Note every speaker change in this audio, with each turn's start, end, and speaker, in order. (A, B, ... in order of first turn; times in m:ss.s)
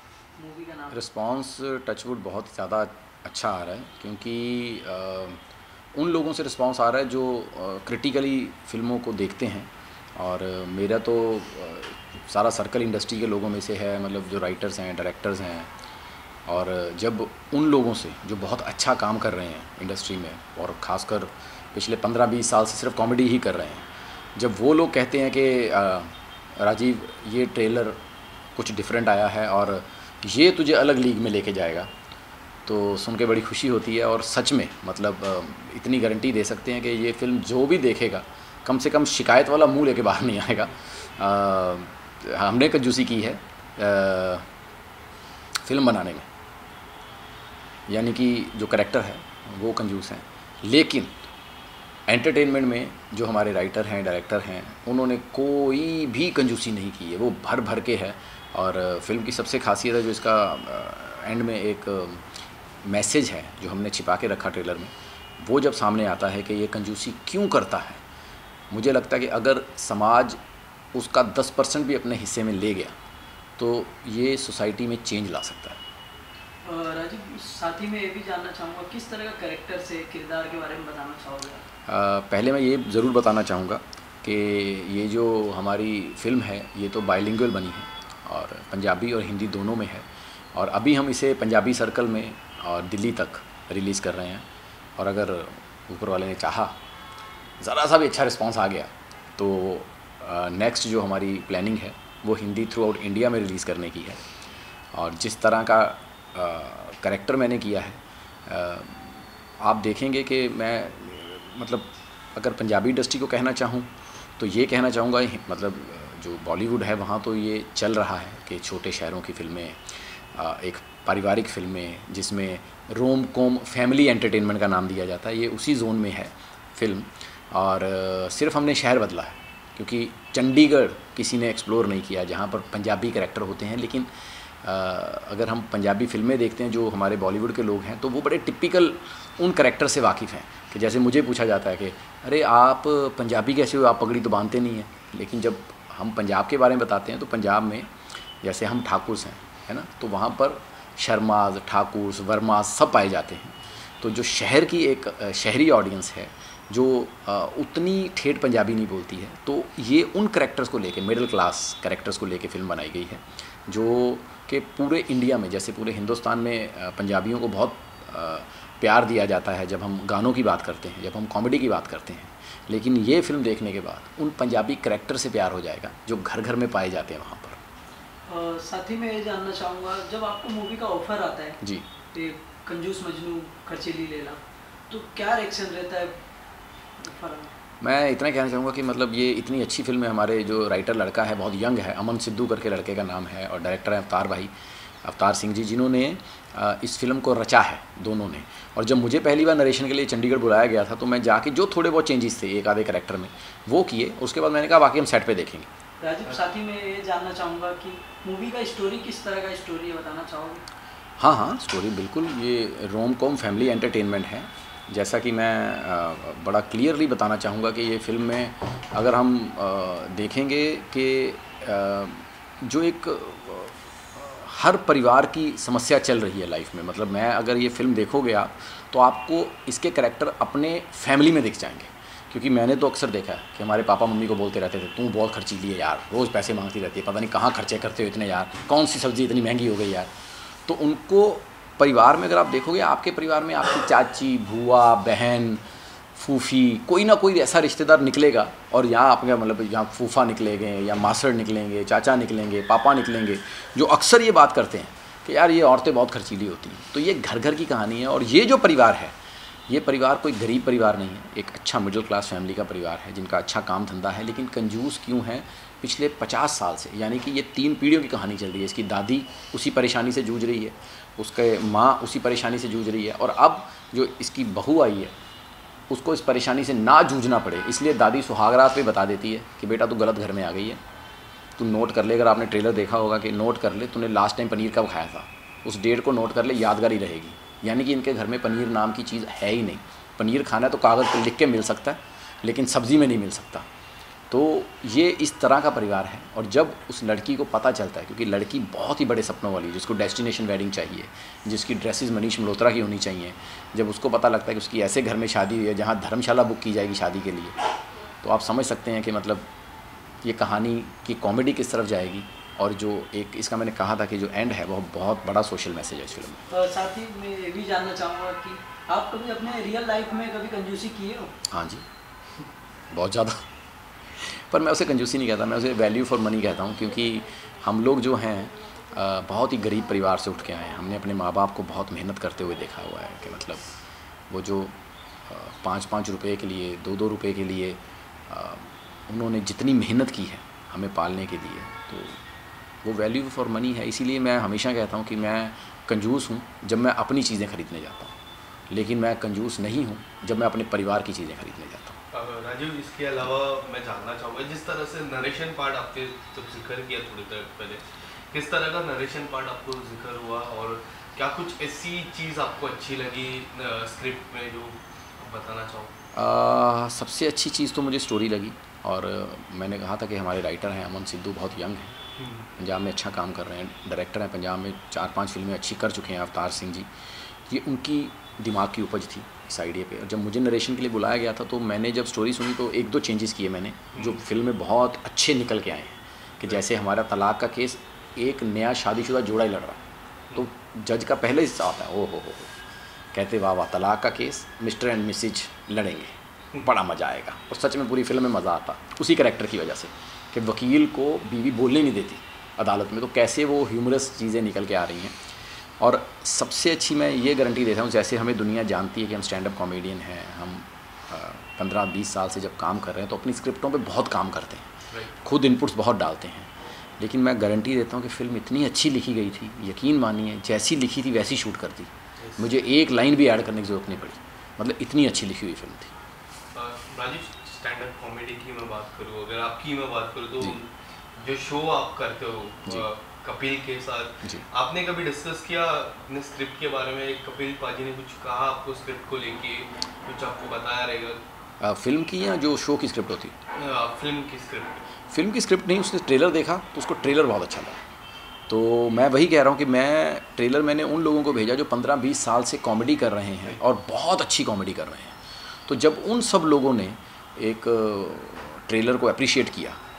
0:00.4-0:01.0 A
0:00.9-0:05.4 B
0:05.9-0:15.7 B
0:16.5-0:28.0 B
0:28.6-0:31.9 B
0:32.7-0:44.5 B
0:45.6-0:46.3 B
0:47.9-0:51.1 B
0:52.1-1:02.3 B
1:02.8-1:08.0 B
1:08.7-1:10.4 B
1:10.9-1:13.0 B
1:13.6-1:15.8 B
1:16.6-1:21.6 A
1:21.9-1:34.5 B
1:35.0-1:36.8 B
1:37.6-1:44.2 B
1:44.9-2:14.1 B
2:14.6-2:27.9 B
2:28.4-2:57.6 B
2:58.3-3:01.6 A
3:02.1-3:06.2 A
3:07.0-3:07.5 A
3:07.8-3:14.5 B
3:15.0-3:25.7 B
3:26.0-3:30.6 A
3:31.2-4:05.6 B
4:06.2-4:19.2 B
4:19.7-4:35.1 B
4:35.9-4:40.8 B
4:41.6-4:53.7 B
4:54.3-5:07.6 B
5:08.2-5:09.5 B
5:10.2-5:16.4 B
5:16.5-5:21.3 A
5:21.5-5:21.8 B
5:22.9-5:23.4 B
5:24.1-5:33.6 B
5:34.3-5:34.7 B
5:35.3-5:42.2 B
5:42.8-5:48.1 B
5:48.7-5:52.0 B
5:52.1-6:05.9 C
6:06.1-6:12.0 B
6:12.2-6:12.5 C
6:12.6-6:29.8 B
6:24.0-6:24.2 C
6:30.4-6:32.5 B
6:33.1-6:45.2 B
6:45.8-6:54.7 B
6:55.2-7:05.9 B
7:02.2-7:02.5 C
7:06.5-7:21.2 C
7:21.6-7:23.4 B
7:23.5-7:24.8 C
7:25.1-7:27.8 B
7:28.5-7:39.8 B